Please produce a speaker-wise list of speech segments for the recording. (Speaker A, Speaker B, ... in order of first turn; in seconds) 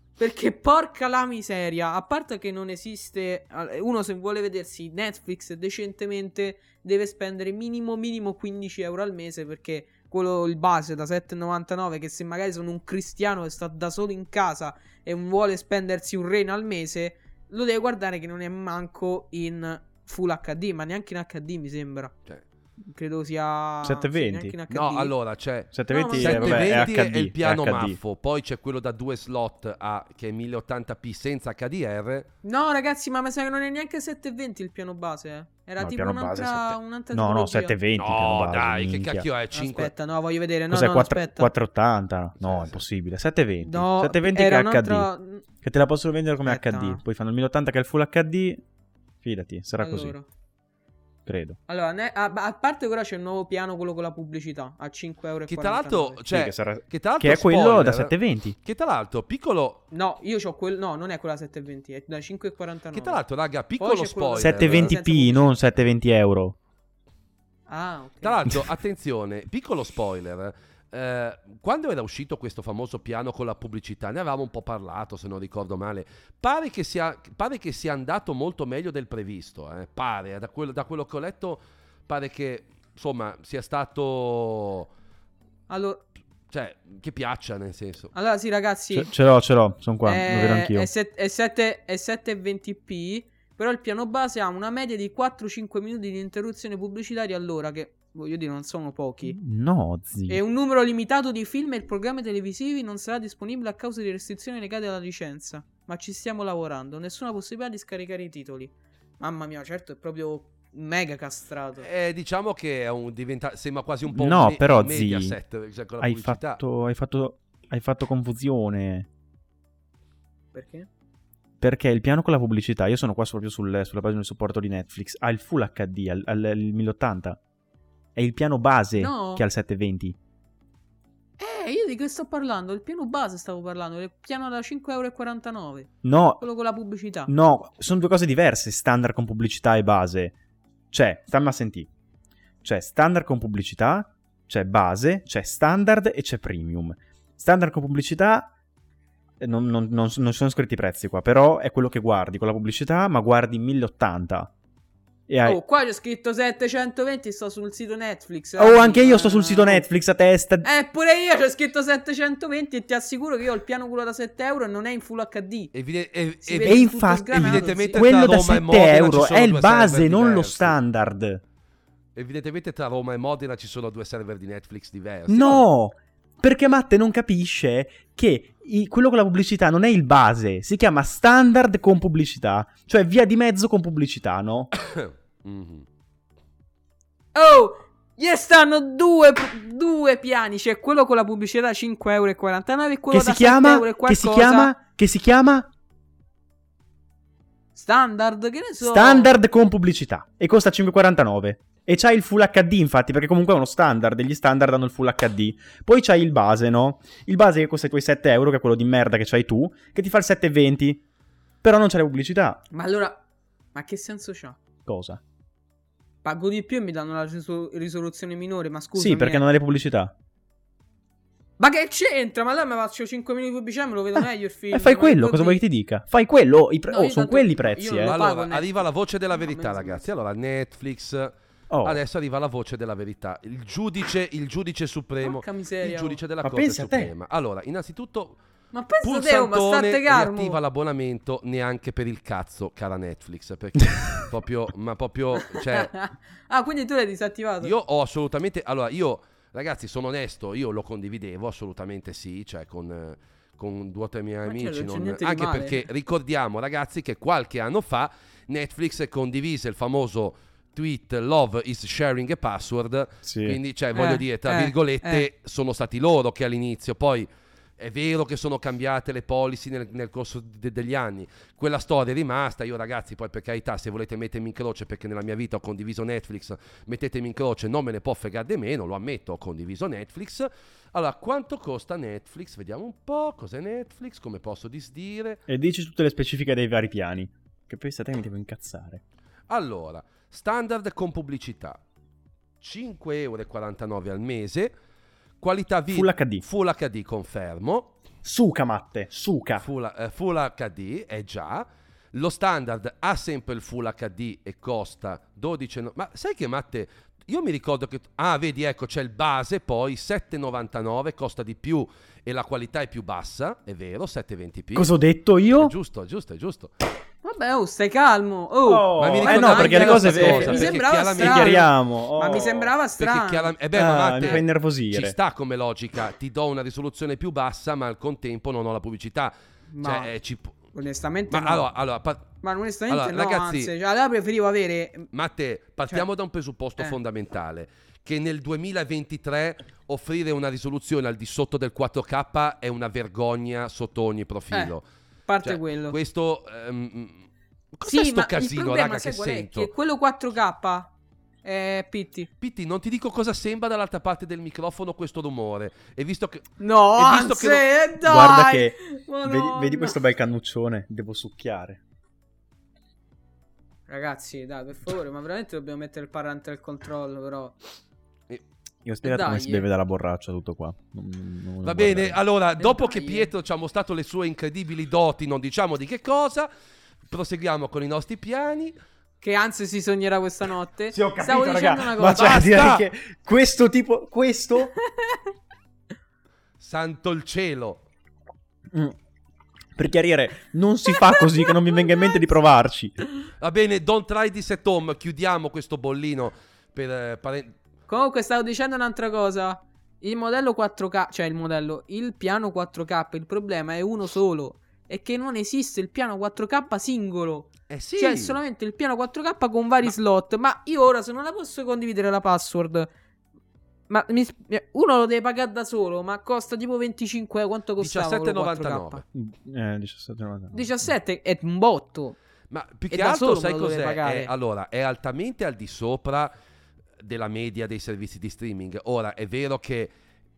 Speaker A: 0.2-22.1, 22.9-25.1, 25.9-26.9, 32.4-37.7, 39.5-41.5, 43.6-45.5, 46.5-47.0, 49.8-50.3, 51.7-56.2, 59.9-63.2, 63.8-65.5, 67.7-68.5, 85.7-86.0, 88.1-89.1, 90.0-99.4, 100.3-111.9, 120.5-120.9, 129.0-129.4, 131.4-135.9, 136.4-137.3, 155.4-159.8, 160.6-165.7, 166.4-168.3, 187.3-194.7, 197.8-199.3, 212.7-213.2, 213.7-214.6, 216.2-219.5, 221.6-225.6, 226.9-228.8, 229.4-230.1, 235.2-236.2, 238.7-240.6, 245.4-247.7, 254.4-255.8, 263.9-265.3, 317.2-323.6, 324.1-324.4, 329.7-330.1, 330.7-331.7, 332.4-335.1, 345.3-346.0, 347.9-350.9, 351.4-352.3, 356.6-360.0, 363.9-367.6, 369.0-369.7, 372.6-373.3, 379.2-382.6, 384.9-385.2, 397.9-412.9, 413.9-419.0, 420.5-422.2, 422.9-424.3
Speaker B: 23.8-24.6, 25.7-28.0, 35.8-39.3, 40.7-45.1, 45.6-48.6, 49.2-50.1, 51.3-51.6, 56.3-58.6, 64.4-66.5, 88.9-90.9, 99.3-100.4, 114.1-115.4, 116.0-119.1, 121.6-127.4, 128.2-130.2, 136.0-136.4, 137.3-140.3, 140.9-141.9, 142.6-148.5, 149.4-154.5, 155.3-155.6, 158.6-160.7, 166.6-171.4, 175.3-184.7, 193.1-195.7, 198.8-211.0, 211.6-212.6, 214.9-215.2, 219.0-220.1, 224.7-228.1, 231.7-232.0, 236.4-237.1, 263.2-263.6, 285.5-289.0, 295.9-296.4, 298.2-299.7, 314.7-315.7, 318.7-322.7, 323.7-325.2, 358.0-361.8, 368.9-372.2, 380.9-384.7, 389.8-393.0, 419.1-420.7
Speaker C: 24.7-32.3, 38.0-39.9, 42.4-42.8, 55.5-59.8, 62.9-64.9, 68.2-84.9, 86.5-88.1, 111.8-116.6, 165.7-170.8, 172.2-175.6, 184.8-185.8, 228.0-231.3, 231.8-238.4, 239.0-245.9, 247.6-267.3, 267.8-285.4, 289.5-291.8, 292.6-294.7, 295.4-297.9, 299.6-314.9, 315.6-316.7, 319.0-321.7, 323.0-330.6, 331.3-333.7, 335.1-344.8, 345.4-349.7, 352.4-357.7, 371.6-376.5, 377.1-378.8, 382.0-382.9, 386.6-387.8, 393.4-397.6, 407.7-408.4, 417.8-419.0, 422.5-426.3, 427.0-429.9